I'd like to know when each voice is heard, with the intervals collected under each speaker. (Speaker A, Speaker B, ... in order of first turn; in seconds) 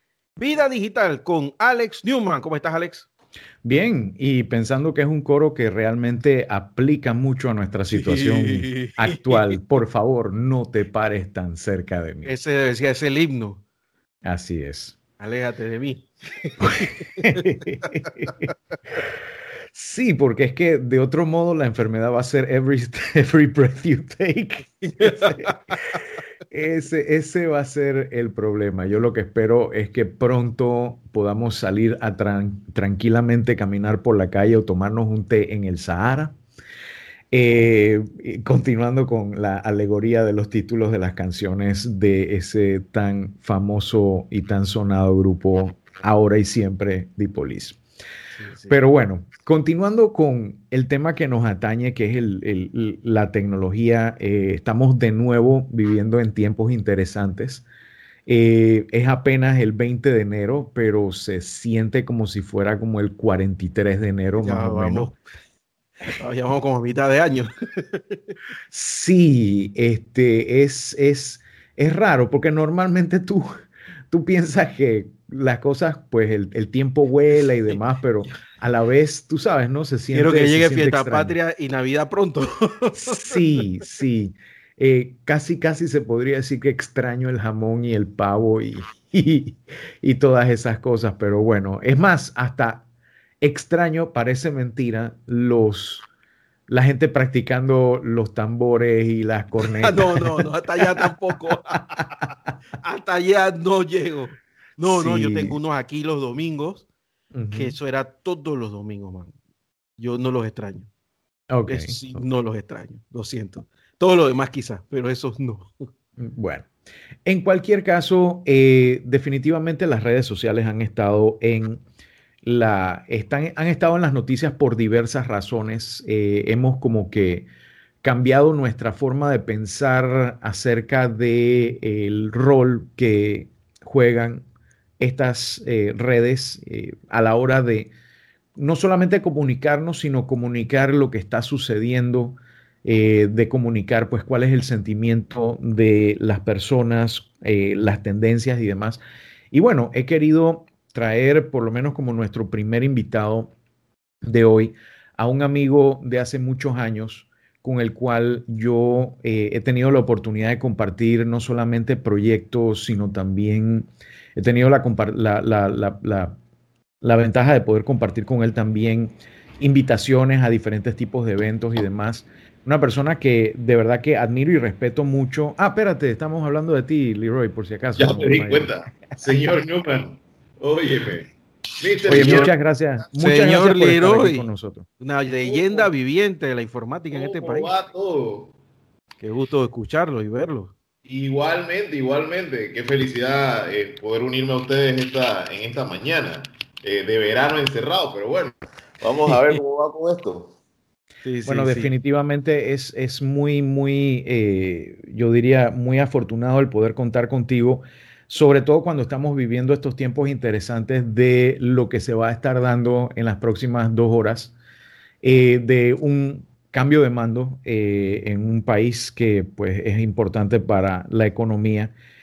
Speaker A: 0.4-3.1, 7.9-9.5, 12.2-13.6, 15.2-17.4, 25.0-25.8, 48.4-48.8, 64.4-65.1, 66.1-68.2, 80.1-83.4, 99.8-102.1, 102.8-106.9, 107.5-109.3, 110.0-110.9, 111.7-115.7, 183.1-184.5, 185.0-187.7, 189.2-190.7, 201.2-201.9
Speaker B: 3.6-12.3, 14.2-15.0, 16.6-18.5, 19.7-25.6, 26.5-36.4, 37.3-47.8, 48.7-57.7, 58.3-65.2, 68.7-73.5, 74.1-81.4, 83.0-92.9, 93.4-96.1, 96.7-101.1, 104.9-105.6, 107.3-107.8, 111.5-112.2, 116.2-116.7, 117.3-121.8, 122.4-127.5, 128.0-134.4, 135.0-137.9, 138.6-149.0, 149.5-153.5, 154.2-166.4, 167.0-179.2, 182.1-184.9, 201.4-214.5, 215.2-221.9
Speaker C: 178.0-182.5, 185.4-185.9, 187.1-188.5, 191.1-200.6